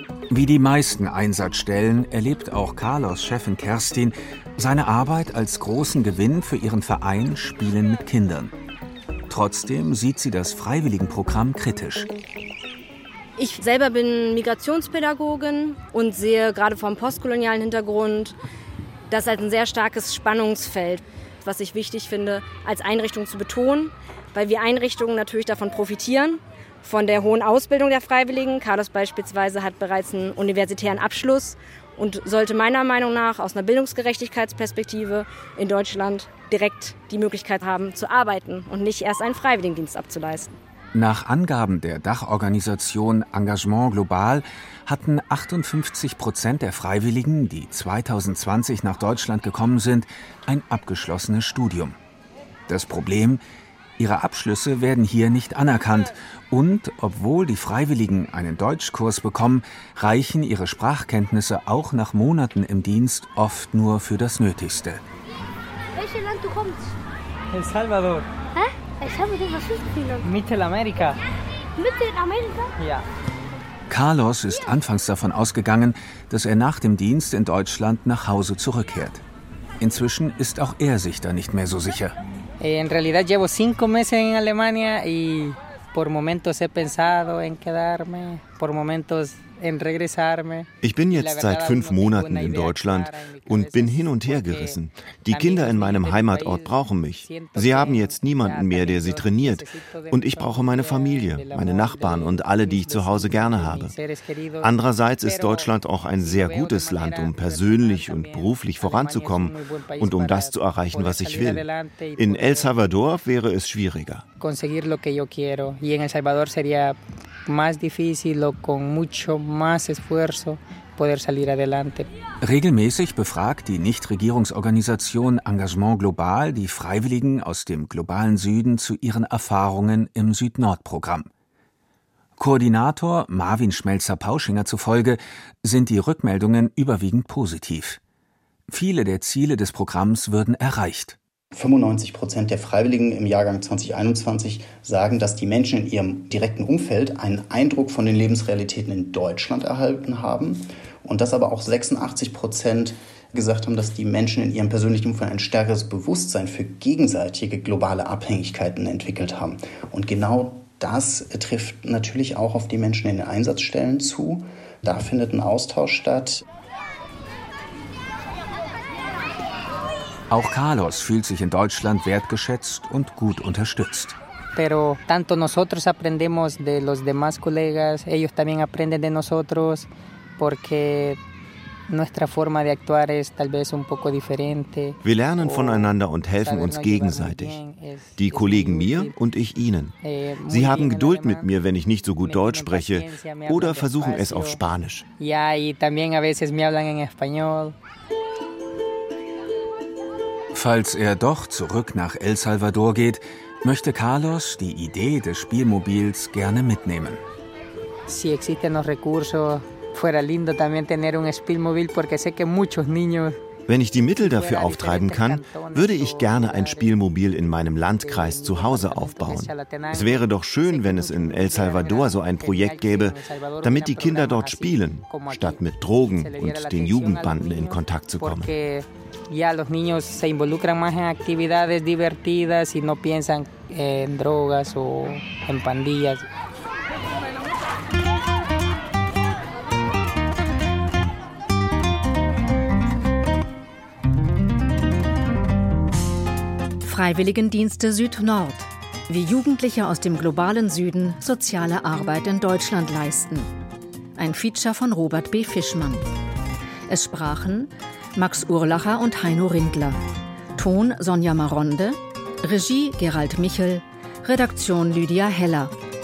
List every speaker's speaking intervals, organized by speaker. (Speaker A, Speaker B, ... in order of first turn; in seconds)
Speaker A: 0.3-8.5, 9.3-12.1, 40.9-52.0, 52.7-53.4, 54.0-65.0, 73.9-79.2, 79.8-82.2, 122.4-131.3, 132.4-138.0, 138.7-141.2, 170.3-174.2, 200.5-207.2
Speaker B: 13.4-18.4, 19.1-40.5
Speaker C: 66.0-66.9, 68.6-70.2, 71.8-72.7
Speaker D: 67.5-68.3, 70.2-71.2, 72.8-73.0, 82.6-112.7, 114.4-122.1, 174.5-181.2, 181.9-189.2, 190.0-191.5, 192.2-194.6, 195.2-197.7, 208.1-213.4, 214.2-217.0, 218.0-225.6, 226.1-236.2
Speaker E: 90.8-103.9, 104.6-111.6, 112.2-114.2, 185.0-187.6, 188.2-189.9, 190.5-195.0, 213.7-228.5
Speaker F: 141.5-166.4
Speaker G: 246.8-253.5, 254.2-256.0, 256.9-260.0, 260.6-265.7